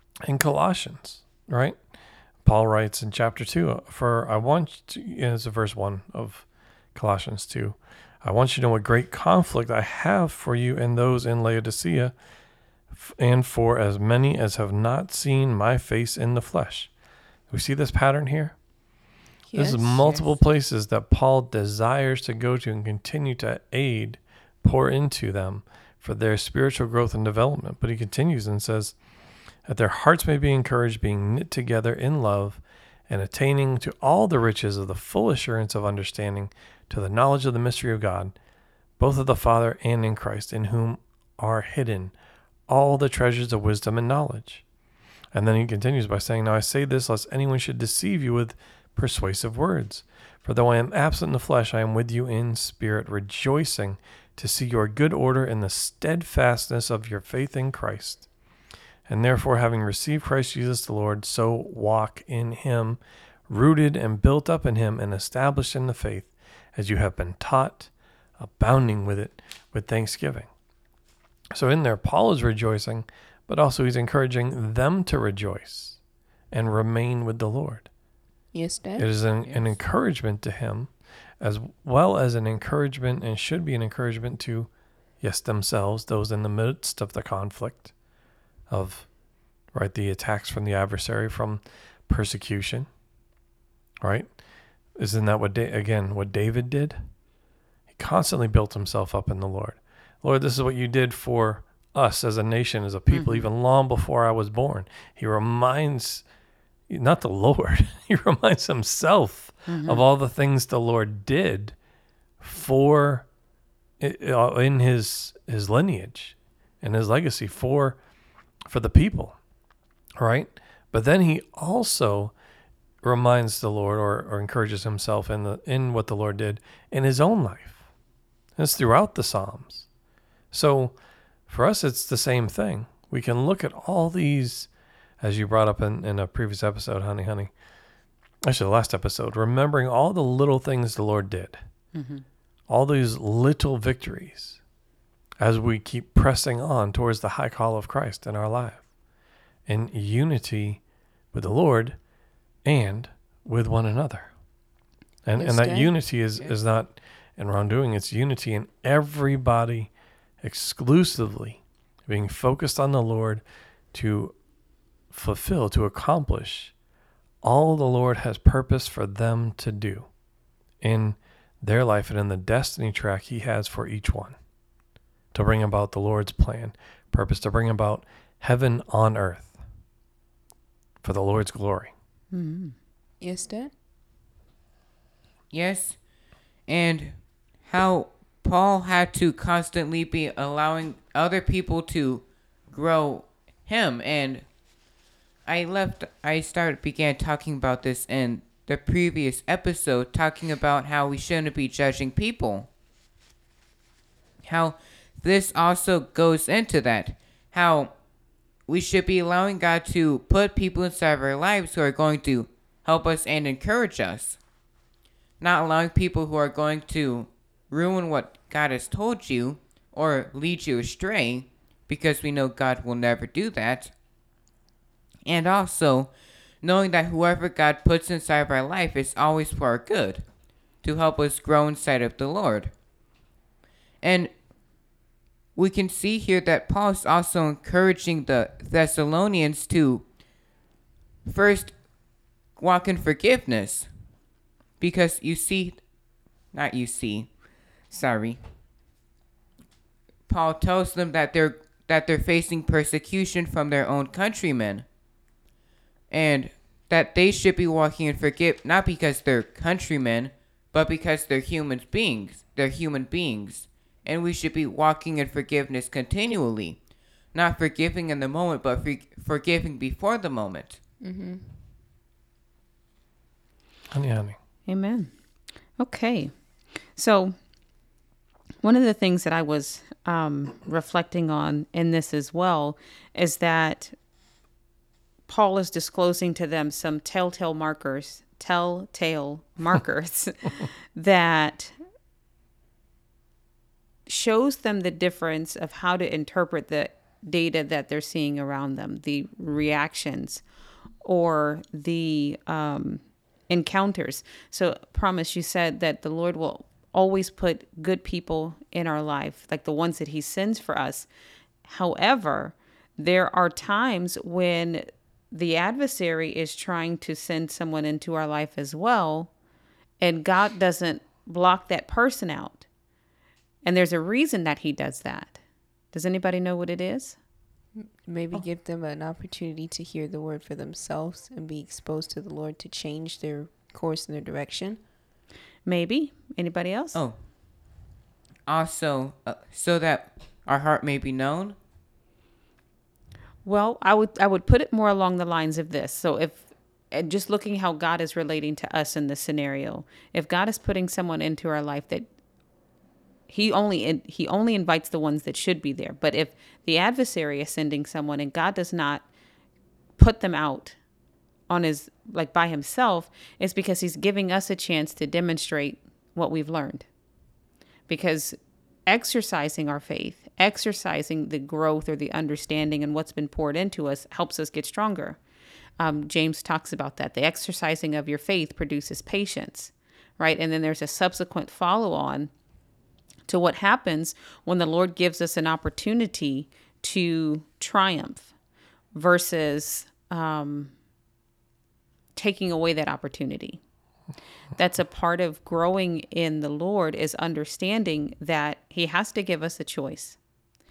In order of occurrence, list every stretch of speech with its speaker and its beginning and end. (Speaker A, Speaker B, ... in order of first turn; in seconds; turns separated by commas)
Speaker A: 0.2-1.8, Speaker A: 2.4-12.1, Speaker A: 12.9-16.9, Speaker A: 17.5-18.6, Speaker B: 19.5-20.0, Speaker A: 19.5-29.0, Speaker C: 20.0-20.4, Speaker A: 29.7-38.3, Speaker A: 39.0-42.1, Speaker A: 42.7-44.6, Speaker A: 45.3-58.3, Speaker A: 59.1-70.5, Speaker A: 71.5-76.0, Speaker A: 76.5-77.9, Speaker B: 78.5-79.1, Speaker A: 79.0-84.7, Speaker C: 79.4-79.8, Speaker A: 85.2-87.9, Speaker A: 88.7-89.1, Speaker A: 89.7-92.9, Speaker A: 94.0-94.3, Speaker A: 95.0-97.0, Speaker A: 97.9-106.2, Speaker D: 103.1-103.5, Speaker A: 106.9-111.8, Speaker D: 109.7-110.0, Speaker A: 112.4-113.3, Speaker A: 114.0-118.0, Speaker A: 118.7-119.4, Speaker A: 120.2-122.3, Speaker A: 123.0-127.8, Speaker A: 128.6-129.9, Speaker A: 130.5-131.0, Speaker A: 131.5-134.7, Speaker A: 135.2-137.5, Speaker A: 138.4-141.6, Speaker D: 141.9-142.2, Speaker A: 142.7-144.6, Speaker A: 145.4-148.8, Speaker A: 149.7-150.8, Speaker A: 151.3-152.0, Speaker A: 152.7-154.3, Speaker A: 155.2-164.3, Speaker B: 155.4-155.9, Speaker A: 165.1-166.7, Speaker A: 167.4-170.1, Speaker A: 170.8-174.4, Speaker A: 175.3-179.6, Speaker A: 181.0-181.9, Speaker D: 182.3-182.8, Speaker B: 183.2-183.7, Speaker C: 185.5-186.0, Speaker C: 186.7-194.5, Speaker C: 195.4-202.7, Speaker C: 204.4-207.9, Speaker C: 208.7-214.4, Speaker C: 215.4-223.9, Speaker C: 225.2-226.1, Speaker C: 226.6-230.2, Speaker C: 230.8-232.7, Speaker C: 234.0-234.3, Speaker C: 235.6-240.1, Speaker C: 241.2-241.8, Speaker C: 242.6-244.0, Speaker C: 244.8-245.8, Speaker C: 246.5-247.3, Speaker C: 247.9-248.4, Speaker C: 250.3-254.9, Speaker C: 256.1-266.8, Speaker C: 267.3-270.8, Speaker B: 271.0-271.6, Speaker A: 273.9-274.4, Speaker D: 274.7-275.1, Speaker D: 275.8-276.3, Speaker D: 276.9-277.4, Speaker D: 278.6-283.9, Speaker D: 285.3-291.8, Speaker D: 294.1-300.4, Speaker D: 301.0-311.1, Speaker D: 311.6-319.3, Speaker D: 320.0-322.6, Speaker D: 323.6-325.4, Speaker D: 325.9-327.2, Speaker B: 327.8-334.8, Speaker D: 335.7-337.0, Speaker C: 338.5-341.6, Speaker D: 343.4-352.1, Speaker D: 353.3-359.1, Speaker D: 360.0-360.8, Speaker D: 361.5-366.9, Speaker D: 367.9-375.2, Speaker D: 375.8-382.3, Speaker D: 383.3-388.3, Speaker D: 388.9-390.7, Speaker D: 392.1-393.6, Speaker D: 394.6-400.2